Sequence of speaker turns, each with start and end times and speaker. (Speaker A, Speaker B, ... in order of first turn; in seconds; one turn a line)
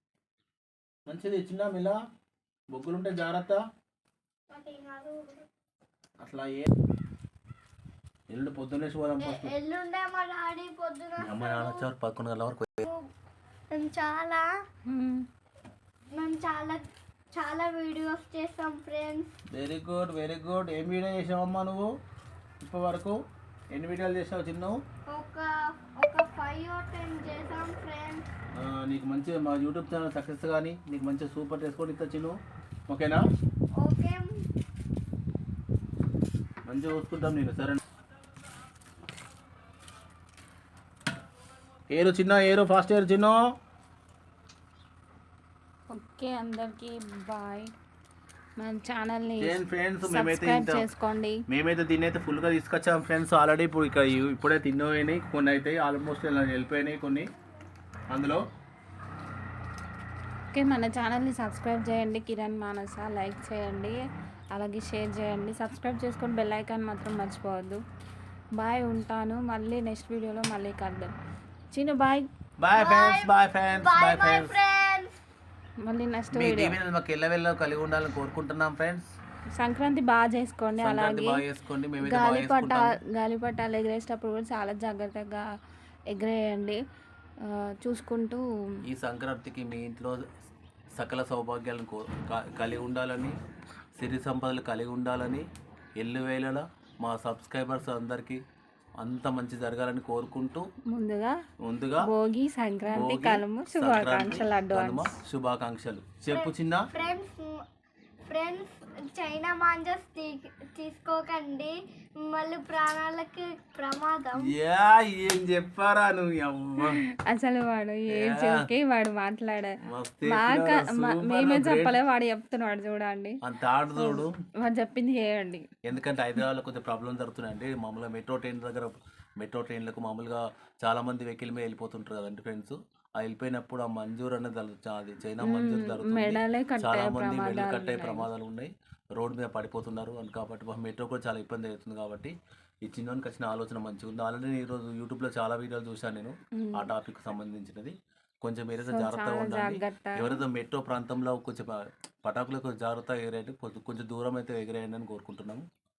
Speaker A: 1.1-2.0
Speaker A: 2.7-3.6
Speaker B: 4.5-5.4
Speaker A: 6.2-6.7
Speaker A: 8.3-9.5
Speaker B: 9.2-11.8
Speaker A: 11.2-12.8
Speaker B: 13.7-14.5
Speaker C: 14.9-15.2
Speaker B: 16.1-19.3
Speaker A: 19.5-21.9
Speaker A: 22.6-23.2
Speaker A: 23.7-24.8
Speaker B: 25.1-28.3
Speaker A: 28.6-32.4
Speaker A: 32.9-33.2
Speaker B: 33.8-34.3
Speaker A: 36.7-37.8
Speaker A: 41.9-43.4
Speaker C: 45.9-47.7
Speaker C: 48.6-51.4
Speaker A: 49.4-50.8
Speaker A: 51.5-57.3
Speaker A: 58.1-58.4
Speaker C: 60.5-64.0
Speaker C: 64.5-67.8
Speaker C: 68.6-71.1
Speaker C: 71.7-72.3
Speaker A: 72.6-74.6
Speaker B: 72.8-75.2
Speaker C: 75.8-76.8
Speaker A: 76.3-79.1
Speaker C: 79.6-81.4
Speaker A: 80.8-83.0
Speaker C: 82.0-85.4
Speaker C: 86.1-86.8
Speaker C: 87.4-88.4
Speaker A: 88.8-90.3
Speaker A: 90.9-93.4
Speaker A: 94.0-95.5
Speaker A: 96.0-98.4
Speaker A: 99.0-100.6
Speaker C: 100.9-101.4
Speaker A: 101.6-102.1
Speaker C: 102.0-105.1
Speaker A: 102.9-106.9
Speaker B: 106.3-107.6
Speaker B: 108.2-114.5
Speaker A: 114.4-117.0
Speaker C: 116.8-123.4
Speaker A: 118.1-118.7
Speaker A: 119.8-122.0
Speaker A: 123.4-124.3
Speaker C: 124.0-125.7
Speaker A: 125.8-142.3
Speaker C: 135.4-138.3
Speaker A: 142.8-155.6
Speaker C: 146.6-146.9
Speaker C: 148.8-150.4